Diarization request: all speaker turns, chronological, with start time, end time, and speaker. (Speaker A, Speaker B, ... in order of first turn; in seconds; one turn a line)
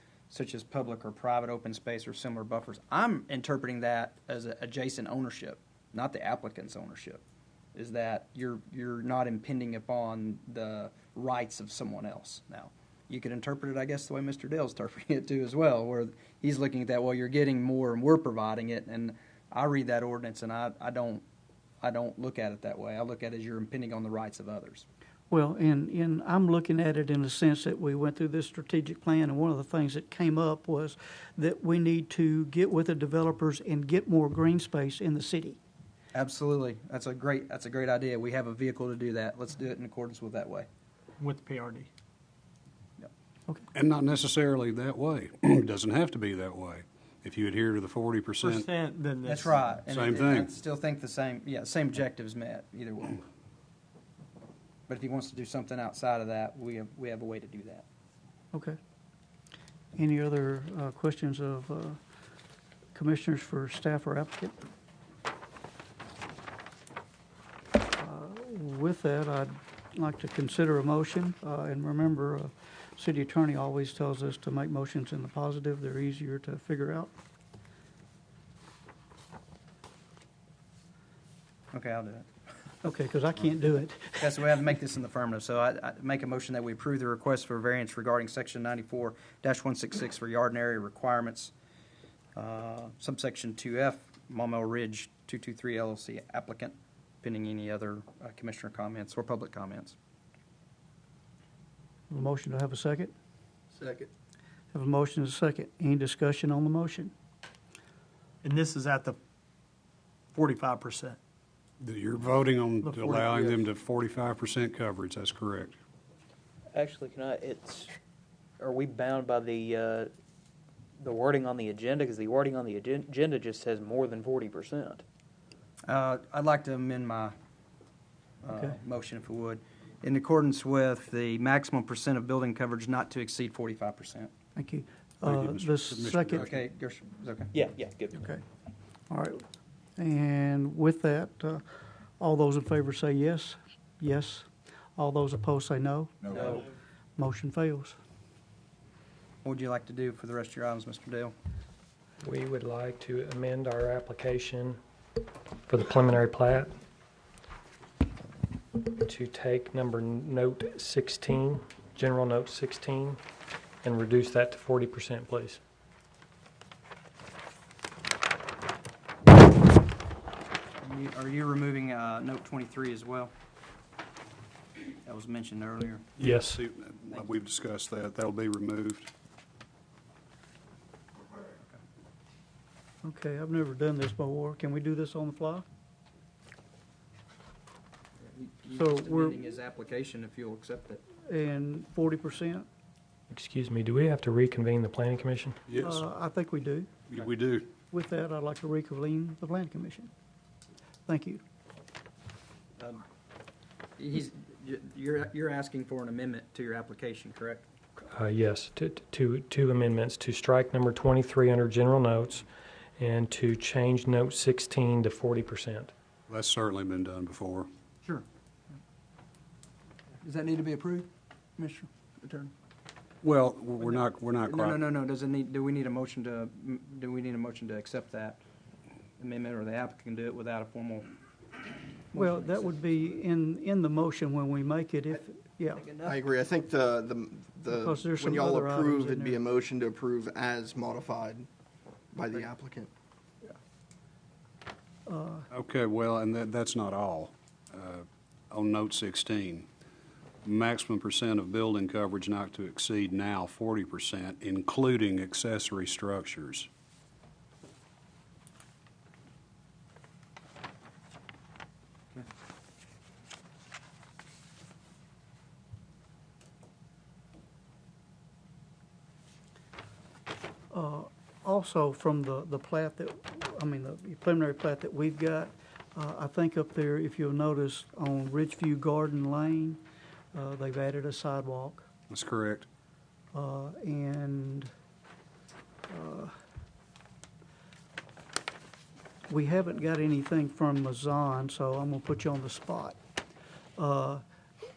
Speaker A: 0.3-7.2
Speaker A: 7.7-21.2
Speaker A: 21.8-24.9
Speaker B: 25.3-35.6
Speaker A: 36.1-40.7
Speaker C: 41.2-41.9
Speaker D: 43.7-48.6
Speaker C: 48.4-49.7
Speaker A: 49.2-53.2
Speaker D: 49.9-50.5
Speaker A: 54.9-57.8
Speaker B: 59.9-62.0
Speaker B: 62.9-64.5
Speaker B: 68.0-77.1
Speaker A: 81.7-82.3
Speaker B: 82.8-84.4
Speaker A: 84.2-91.5
Speaker A: 92.3-100.0
Speaker B: 102.1-103.1
Speaker E: 103.8-104.1
Speaker B: 104.7-107.1
Speaker C: 108.4-109.2
Speaker C: 110.3-111.2
Speaker D: 111.8-115.8
Speaker C: 112.8-113.5
Speaker F: 116.7-117.9
Speaker F: 118.6-120.1
Speaker F: 121.0-125.0
Speaker A: 125.8-127.3
Speaker A: 128.4-134.3
Speaker B: 134.6-136.4
Speaker D: 135.2-136.5
Speaker A: 136.3-137.5
Speaker F: 137.5-138.3
Speaker B: 138.1-138.4
Speaker B: 139.1-139.4
Speaker B: 140.0-141.6
Speaker B: 142.2-146.6
Speaker B: 147.2-147.9
Speaker A: 149.4-151.3
Speaker G: 152.2-154.8
Speaker G: 155.7-156.7
Speaker G: 159.0-163.2
Speaker G: 163.8-165.6
Speaker A: 170.8-173.3
Speaker A: 175.0-176.1
Speaker D: 176.2-179.1
Speaker G: 176.2-176.6
Speaker B: 183.0-185.6
Speaker A: 188.3-191.0
Speaker B: 188.7-189.4
Speaker B: 191.2-192.7
Speaker G: 193.3-195.6
Speaker D: 195.7-196.0
Speaker B: 195.8-196.9
Speaker D: 197.1-197.7
Speaker B: 197.9-200.1
Speaker B: 201.1-201.4
Speaker A: 204.0-207.6
Speaker G: 208.0-212.4
Speaker G: 213.0-215.9
Speaker D: 216.3-217.7
Speaker A: 220.2-222.5
Speaker D: 223.2-224.8
Speaker A: 223.8-228.4
Speaker A: 229.2-231.1
Speaker A: 232.1-232.7
Speaker B: 232.1-235.8
Speaker A: 235.7-236.2
Speaker E: 236.0-241.5
Speaker B: 237.7-239.4
Speaker E: 242.1-242.9
Speaker B: 245.1-245.5
Speaker D: 245.5-249.7
Speaker D: 250.4-256.7
Speaker B: 270.7-279.8
Speaker B: 280.3-281.8
Speaker D: 282.1-282.7
Speaker B: 283.3-284.7
Speaker B: 285.9-286.3
Speaker B: 289.3-293.0
Speaker B: 293.8-294.2